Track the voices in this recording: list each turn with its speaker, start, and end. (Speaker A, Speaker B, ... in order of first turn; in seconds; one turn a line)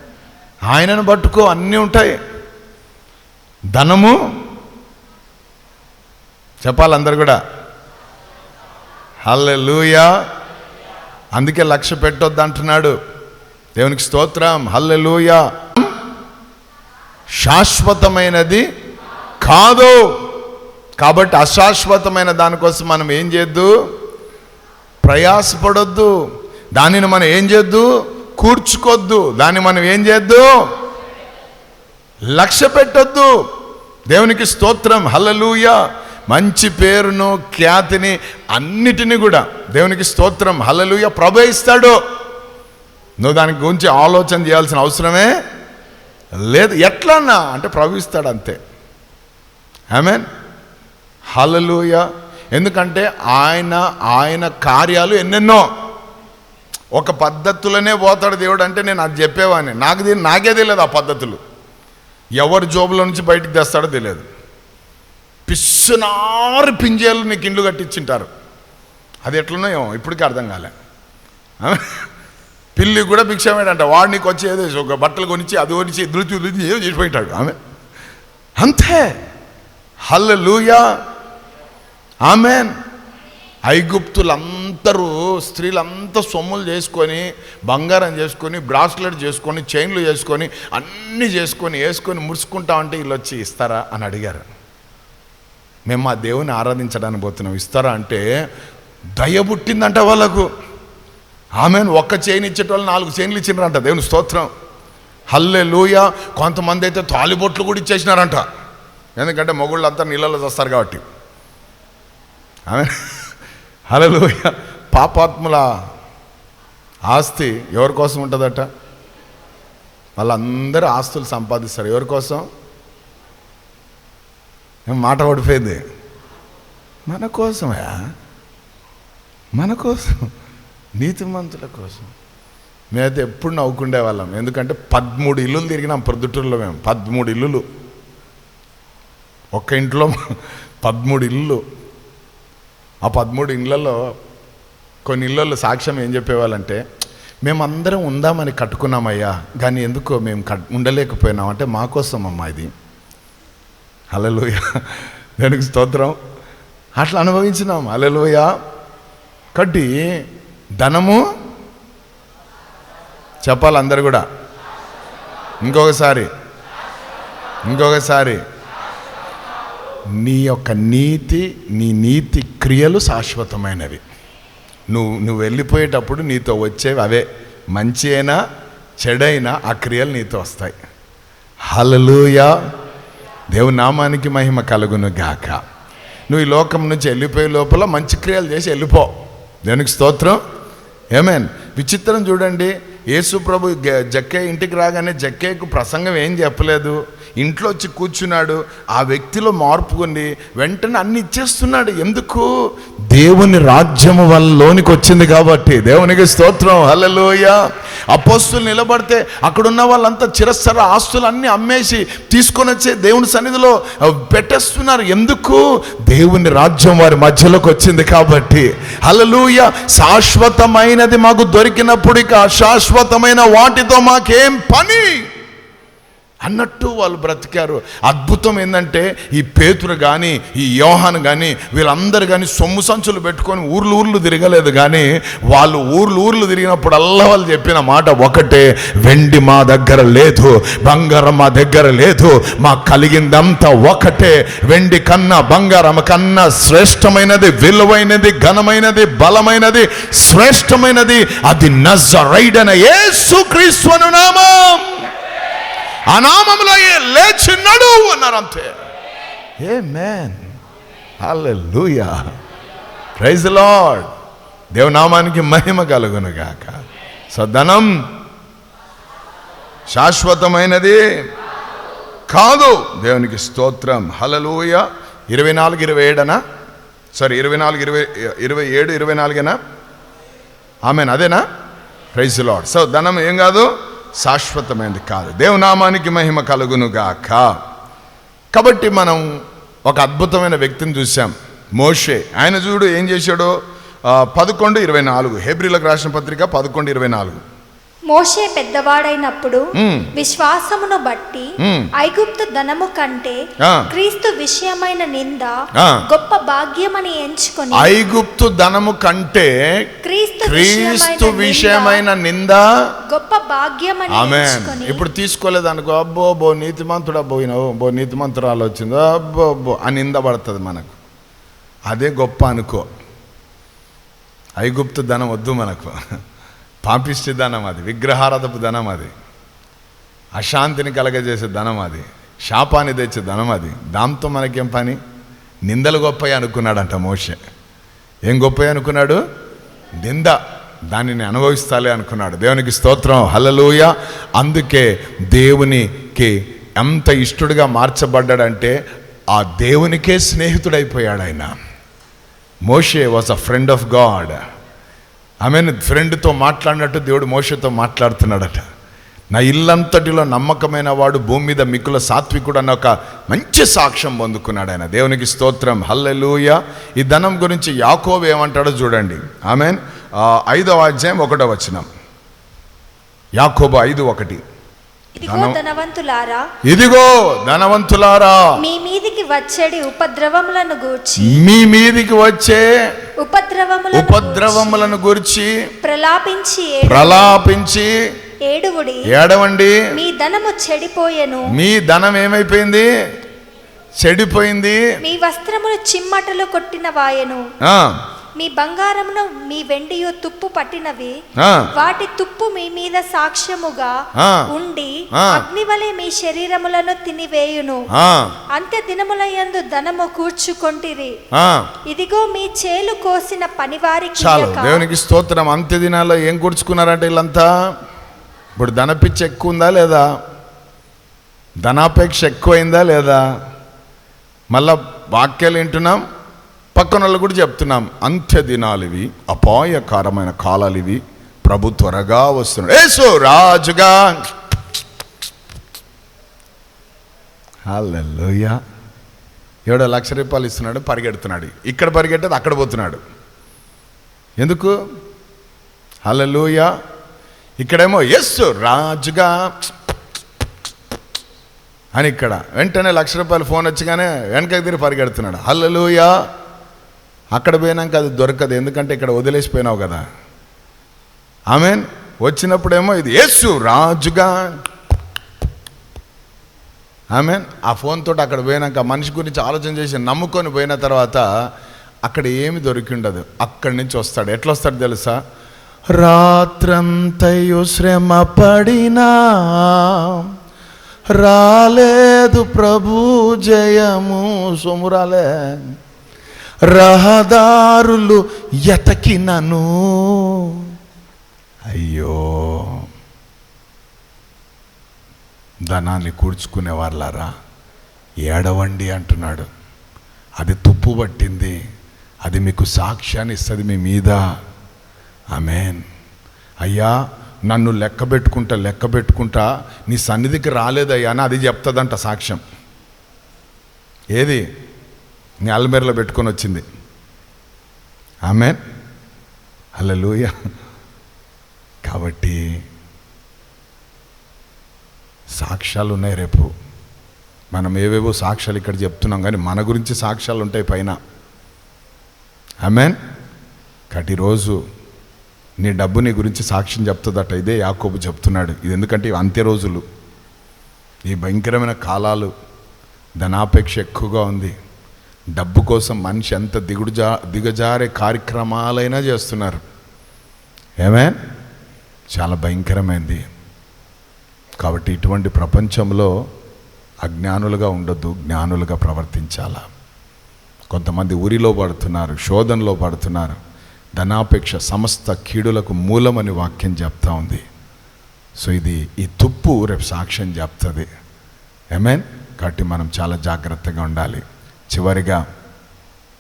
Speaker A: 0.7-2.1
Speaker A: 3.7-4.2
Speaker A: 6.6-7.4
Speaker A: 9.3-10.1
Speaker A: 11.4-12.9
Speaker A: 13.8-15.9
Speaker A: 17.4-18.6
Speaker A: 19.4-20.1
Speaker A: 21.0-23.7
Speaker A: 25.0-26.1
Speaker A: 26.8-30.5
Speaker A: 32.3-33.3
Speaker A: 34.1-35.8
Speaker A: 36.3-42.0
Speaker A: 43.2-45.3
Speaker A: 46.4-48.6
Speaker A: 49.9-50.3
Speaker A: 51.3-55.7
Speaker A: 57.0-61.4
Speaker A: 62.4-64.2
Speaker A: 65.5-68.3
Speaker A: 69.3-70.7
Speaker A: 71.6-71.9
Speaker A: 72.8-77.6
Speaker A: 78.6-79.2
Speaker A: 80.1-80.8
Speaker A: 82.3-82.8
Speaker A: 83.7-94.5
Speaker A: 95.9-98.2
Speaker A: 99.2-100.5
Speaker A: 101.6-104.5
Speaker A: 105.3-108.5
Speaker A: 109.2-111.0
Speaker A: 112.7-112.9
Speaker A: 113.9-115.7
Speaker A: 117.1-118.7
Speaker A: 120.2-122.5
Speaker A: 124.9-125.8
Speaker A: 127.1-128.0
Speaker A: 129.6-130.3
Speaker A: 131.0-132.1
Speaker A: 132.9-137.7
Speaker A: 139.6-140.2
Speaker A: 140.8-141.6
Speaker A: 143.0-144.0
Speaker A: 145.1-146.8
Speaker A: 147.4-152.7
Speaker A: 154.1-156.2
Speaker A: 157.0-158.5
Speaker A: 159.6-160.2
Speaker A: 160.8-161.2
Speaker A: 163.4-164.2
Speaker A: 165.6-166.3
Speaker A: 167.7-168.4
Speaker A: 170.2-174.0
Speaker A: 174.9-178.4
Speaker A: 179.0-180.8
Speaker A: 181.7-182.5
Speaker A: 183.5-185.6
Speaker A: 186.3-189.1
Speaker A: 189.7-190.4
Speaker A: 191.1-202.5
Speaker A: 203.1-207.6
Speaker A: 208.1-225.3
Speaker A: 226.4-255.1
Speaker A: 256.1-258.8
Speaker A: 259.6-260.5
Speaker A: 261.2-262.2
Speaker A: 263.2-264.1
Speaker A: 264.7-266.8
Speaker A: 267.3-268.0
Speaker A: 269.9-271.2
Speaker A: 272.3-276.4
Speaker A: 277.2-279.6
Speaker A: 280.9-281.4
Speaker A: 282.1-287.6
Speaker A: 288.5-289.3
Speaker A: 289.9-293.5
Speaker A: 294.1-297.4
Speaker B: 298.1-305.5
Speaker A: 299.8-300.1
Speaker A: 301.6-301.9
Speaker A: 303.6-303.9
Speaker B: 306.1-307.9
Speaker A: 307.8-309.5
Speaker B: 310.0-312.0
Speaker A: 310.4-312.6
Speaker B: 313.1-315.0
Speaker A: 314.1-320.9
Speaker A: 321.9-322.9
Speaker A: 324.6-325.9
Speaker A: 326.9-329.1
Speaker A: 330.4-335.0
Speaker A: 335.7-337.4
Speaker A: 338.3-339.2
Speaker A: 340.0-340.4
Speaker A: 340.9-348.8
Speaker A: 349.3-351.6
Speaker A: 352.7-354.4
Speaker A: 355.4-358.6
Speaker A: 359.3-371.9
Speaker A: 373.4-374.4
Speaker B: 375.2-376.4
Speaker A: 375.2-375.6
Speaker A: 376.7-378.5
Speaker B: 378.6-381.4
Speaker A: 381.2-382.7
Speaker B: 383.2-385.0
Speaker A: 383.9-385.5
Speaker B: 385.8-387.4
Speaker A: 386.8-387.9
Speaker B: 388.5-389.1
Speaker A: 389.1-389.9
Speaker B: 389.9-391.5
Speaker A: 391.5-392.9
Speaker A: 394.0-394.8
Speaker B: 395.0-397.4
Speaker A: 397.6-398.0
Speaker B: 398.4-401.2
Speaker A: 401.4-401.7
Speaker B: 401.8-407.9
Speaker A: 404.2-404.5
Speaker A: 405.1-405.4
Speaker A: 407.9-408.3
Speaker B: 408.5-411.2
Speaker A: 411.3-411.6
Speaker B: 411.9-414.9
Speaker A: 414.2-417.5
Speaker A: 418.6-420.1
Speaker A: 421.6-423.3
Speaker A: 424.5-426.1
Speaker A: 426.8-434.2
Speaker A: 437.7-438.6
Speaker A: 439.7-443.0
Speaker A: 444.4-444.8
Speaker A: 446.1-446.7
Speaker A: 447.6-449.7
Speaker A: 452.0-456.1
Speaker A: 457.4-460.0
Speaker A: 461.5-464.6
Speaker A: 467.1-471.2
Speaker A: 472.1-475.2
Speaker A: 475.9-480.3
Speaker A: 481.1-485.7
Speaker A: 486.6-490.7
Speaker A: 491.7-492.9
Speaker A: 495.7-497.3
Speaker A: 498.2-499.5
Speaker A: 500.4-501.6
Speaker A: 502.2-504.2
Speaker A: 505.3-505.8
Speaker A: 506.6-506.9
Speaker A: 507.5-512.4
Speaker A: 514.2-514.4
Speaker A: 515.4-516.6
Speaker A: 518.3-518.6
Speaker A: 519.8-520.3
Speaker A: 521.8-522.5
Speaker A: 525.4-526.5
Speaker A: 527.5-531.0
Speaker A: 532.6-533.0
Speaker A: 533.9-534.6
Speaker A: 535.6-539.8
Speaker A: 541.1-542.3
Speaker A: 543.2-544.5
Speaker A: 545.4-549.6
Speaker A: 550.8-551.2
Speaker A: 552.1-553.2
Speaker A: 554.6-556.1
Speaker A: 557.0-559.6
Speaker A: 560.7-563.4
Speaker A: 564.0-567.4
Speaker A: 568.4-570.9
Speaker A: 571.8-575.2